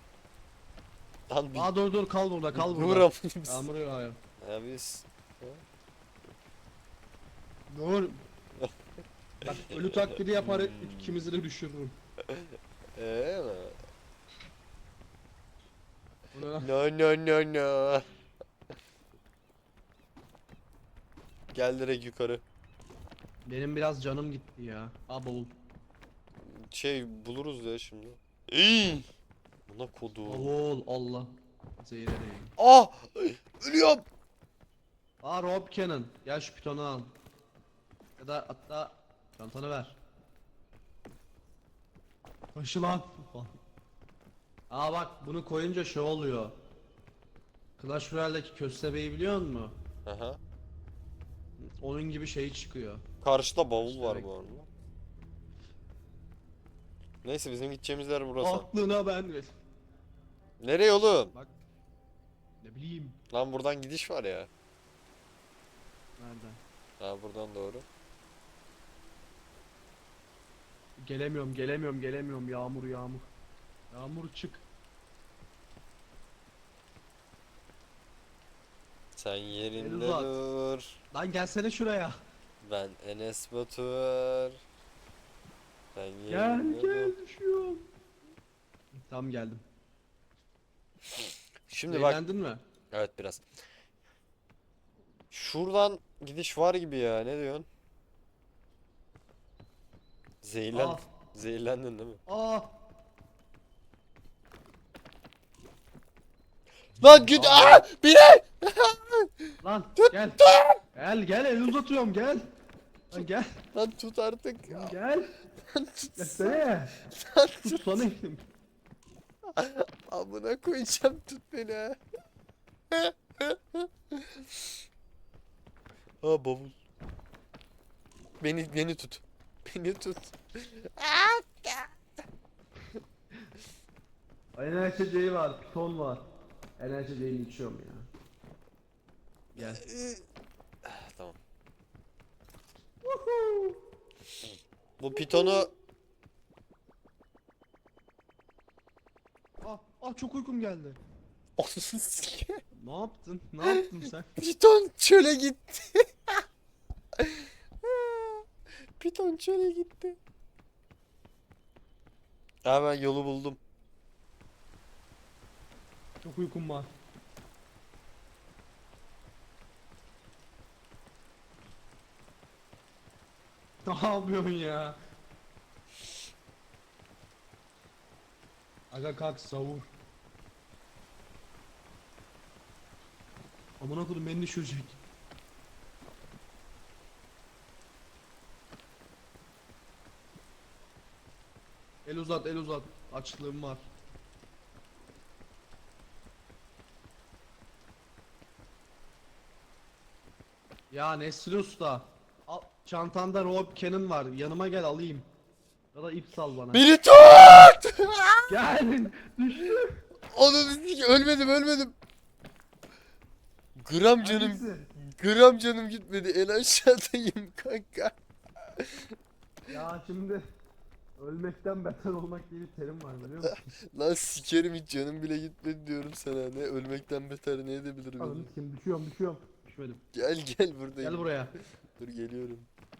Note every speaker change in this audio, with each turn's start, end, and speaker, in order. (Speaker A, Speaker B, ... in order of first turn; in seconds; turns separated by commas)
Speaker A: 1.3-1.7, Speaker B: 1.5-4.2, Speaker A: 2.5-3.7, Speaker A: 4.4-5.6, Speaker B: 7.7-8.2, Speaker B: 9.4-12.0, Speaker A: 10.4-11.2, Speaker A: 12.3-13.8, Speaker B: 16.3-16.7, Speaker A: 16.6-18.0, Speaker A: 21.5-22.4, Speaker B: 23.4-25.5, Speaker A: 26.4-29.1, Speaker A: 29.7-30.5, Speaker B: 30.2-32.5, Speaker A: 32.6-34.1, Speaker B: 35.2-37.1, Speaker B: 38.2-40.0, Speaker B: 42.5-43.6, Speaker B: 44.7-46.6, Speaker B: 47.8-49.8, Speaker A: 50.1-50.4, Speaker B: 51.6-53.0, Speaker A: 53.2-54.7, Speaker B: 53.8-54.3, Speaker A: 57.2-58.7, Speaker B: 58.4-59.6, Speaker A: 60.6-61.3, Speaker B: 62.6-63.2, Speaker A: 63.3-64.5, Speaker B: 66.2-66.6, Speaker A: 67.0-67.8, Speaker B: 71.0-73.3, Speaker B: 73.9-74.6, Speaker A: 79.2-81.0, Speaker B: 79.8-80.3, Speaker B: 81.1-82.2, Speaker A: 82.6-84.6, Speaker A: 85.9-87.1, Speaker B: 86.3-87.9, Speaker B: 88.9-89.6, Speaker A: 91.7-92.2, Speaker B: 91.9-92.6, Speaker A: 92.9-93.4, Speaker A: 95.3-97.7, Speaker A: 100.4-102.2, Speaker B: 100.7-101.1, Speaker B: 102.2-102.8, Speaker A: 107.0-110.8, Speaker B: 107.0-107.9, Speaker B: 109.6-110.4, Speaker B: 110.9-112.5, Speaker B: 113.1-113.6, Speaker A: 113.7-114.9, Speaker B: 114.7-115.3, Speaker A: 115.7-118.0, Speaker B: 116.2-117.0, Speaker B: 117.6-118.5, Speaker A: 119.6-122.0, Speaker A: 122.9-124.6, Speaker A: 126.2-126.8, Speaker A: 128.4-131.9, Speaker B: 134.5-136.2, Speaker B: 136.8-138.1, Speaker A: 139.5-140.2, Speaker B: 139.6-139.8, Speaker A: 140.8-141.4, Speaker B: 143.0-143.8, Speaker A: 145.0-145.7, Speaker B: 145.1-145.7, Speaker B: 149.6-151.0, Speaker A: 151.6-152.6, Speaker B: 152.7-154.3, Speaker A: 153.7-156.4, Speaker A: 157.2-158.4, Speaker A: 159.0-160.2, Speaker A: 162.6-163.6, Speaker B: 166.2-166.9, Speaker B: 173.8-175.0, Speaker B: 178.9-179.9, Speaker B: 183.8-185.0, Speaker B: 192.0-193.9, Speaker B: 200.9-205.3, Speaker B: 205.9-206.8, Speaker A: 206.7-208.5, Speaker B: 208.5-210.0, Speaker A: 210.3-211.9, Speaker A: 213.8-218.2, Speaker B: 214.2-214.9, Speaker A: 218.7-219.1, Speaker B: 219.7-220.4, Speaker B: 221.2-223.7, Speaker A: 223.4-228.5, Speaker B: 228.2-230.0, Speaker A: 230.1-231.3, Speaker B: 231.0-231.5, Speaker A: 232.0-232.7